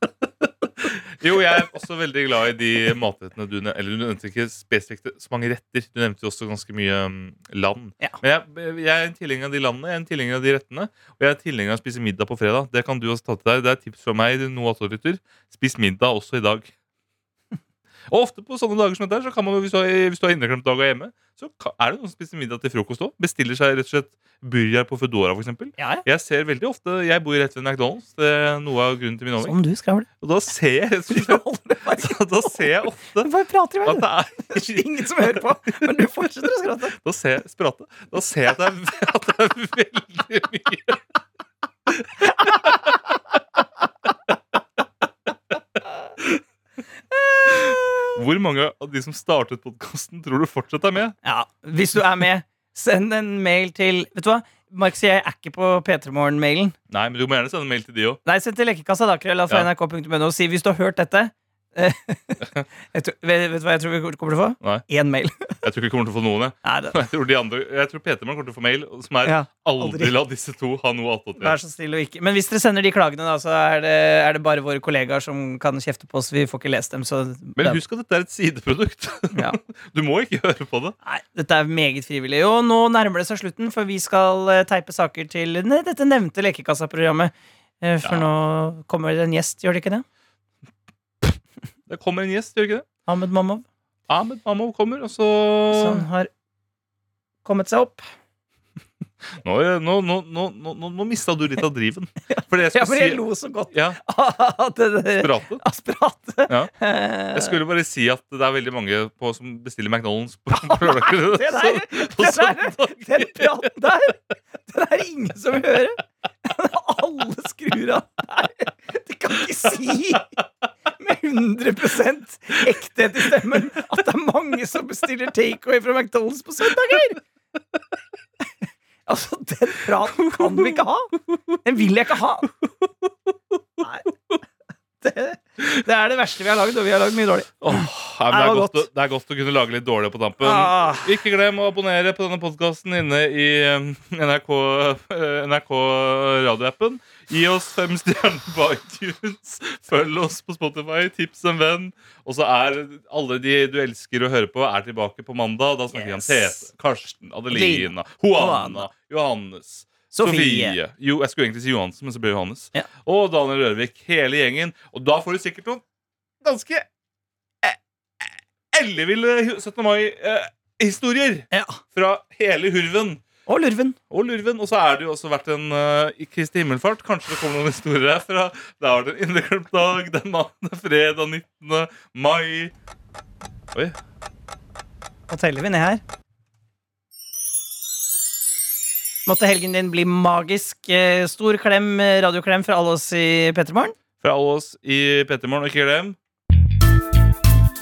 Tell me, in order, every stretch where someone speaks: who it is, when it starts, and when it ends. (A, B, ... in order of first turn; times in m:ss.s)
0:00.4-0:16.7 A
0:18.1-0:29.6 A
0:25.8-0:26.1 B
0:29.4-0:30.1 B
0:30.2-0:33.3 A
0:31.1-0:32.2 B
0:33.2-0:37.0 B
0:33.8-0:35.9 A
0:37.0-0:41.0 A
0:41.9-0:42.8 A
0:42.4-0:42.7 B
0:47.3-0:48.1 B
0:47.5-0:51.2 A
0:51.2-0:56.8 B
0:56.9-0:58.2 A
0:58.2-1:05.6 B
1:05.6-1:11.6 A
1:06.6-1:07.0 B
1:09.2-1:10.1 B
1:11.4-1:17.8 B
1:17.6-1:21.0 A
1:19.3-1:19.6 B
1:21.0-1:30.0 B
1:28.0-1:28.3 A
1:31.9-1:32.8 A
1:33.1-1:33.6 B
1:34.1-1:36.1 A
1:35.7-1:36.3 B
1:37.4-1:38.0 B
1:39.4-1:44.0 A
1:42.3-1:47.6 B
1:45.2-1:45.6 A
1:46.5-1:46.7 A
1:47.3-1:53.7 A
1:50.6-2:00.3 B
2:01.0-2:07.2 B
2:09.1-2:12.5 B
2:10.4-2:10.7 A
2:13.8-2:14.1 B
2:15.0-2:18.9 B
2:17.6-2:45.8 A
2:20.4-2:21.1 B
2:35.9-2:36.7 B
2:37.5-2:38.9 B
2:40.1-2:40.8 B
2:46.4-2:46.9 A
2:47.6-2:53.2 A
2:51.5-2:51.8 B
2:53.5-2:54.0 B
2:54.1-3:02.7 A
3:05.3-3:06.0 B
3:09.3-3:14.0 B
3:14.2-3:16.2 A